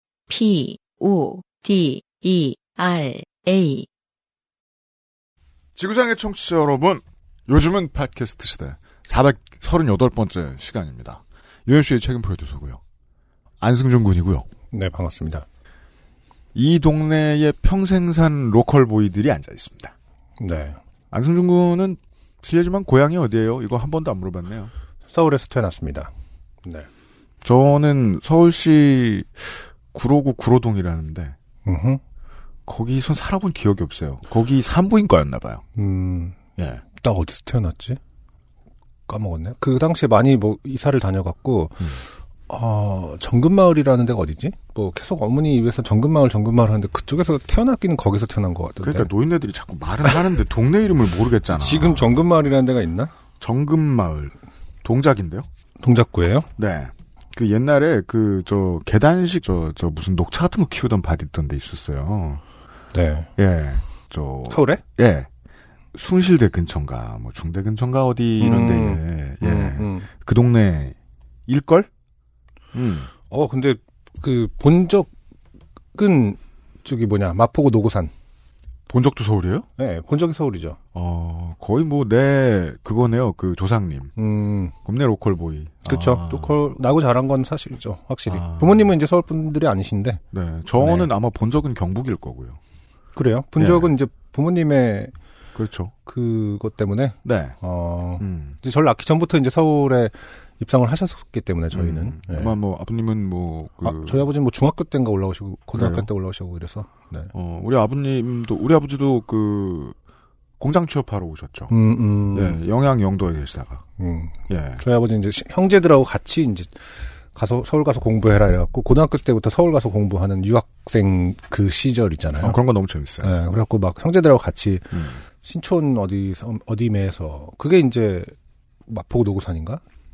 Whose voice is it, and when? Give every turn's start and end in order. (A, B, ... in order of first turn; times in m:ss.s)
0:00.3-0:03.9 A
0:05.8-0:12.8 B
0:13.6-0:14.4 B
0:14.7-0:15.4 C
0:16.5-0:19.9 B
0:20.4-0:20.8 C
0:21.1-0:24.7 B
0:25.1-0:26.1 C
0:27.4-0:31.4 B
0:31.6-0:32.0 C
0:32.6-0:35.6 B
0:35.8-0:36.4 C
0:36.6-0:36.8 B
0:37.0-0:38.0 C
0:39.1-0:49.1 C
0:48.8-0:52.2 B
0:51.5-0:53.1 C
0:53.4-0:55.5 B
0:55.8-0:56.5 C
0:56.6-1:02.4 B
1:02.9-1:03.3 C
1:03.4-1:05.3 B
1:04.5-1:04.8 C
1:05.9-1:10.9 B
1:08.4-1:10.1 C
1:11.5-1:11.9 B
1:12.7-1:13.1 B
1:13.3-1:15.1 C
1:15.9-1:18.1 C
1:18.9-1:19.6 B
1:19.8-1:20.8 C
1:20.9-1:24.1 B
1:24.2-1:24.7 C
1:24.8-1:26.6 B
1:25.8-1:30.2 C
1:28.3-1:28.9 B
1:30.3-1:32.6 B
1:30.8-1:31.1 C
1:33.1-1:35.1 C
1:33.6-1:33.9 B
1:35.5-1:35.9 B
1:36.0-1:42.6 C
1:37.2-1:37.6 B
1:38.2-1:38.6 B
1:41.7-1:44.3 B
1:43.8-1:47.3 C
1:45.7-1:46.1 B
1:47.3-1:50.0 B
1:50.6-1:51.7 B
1:51.7-1:52.6 C
1:52.3-1:53.8 B
1:54.0-2:02.6 C
1:54.5-1:54.8 B
2:02.4-2:03.3 B
2:03.2-2:08.3 C
2:04.9-2:05.2 B
2:08.9-2:09.8 C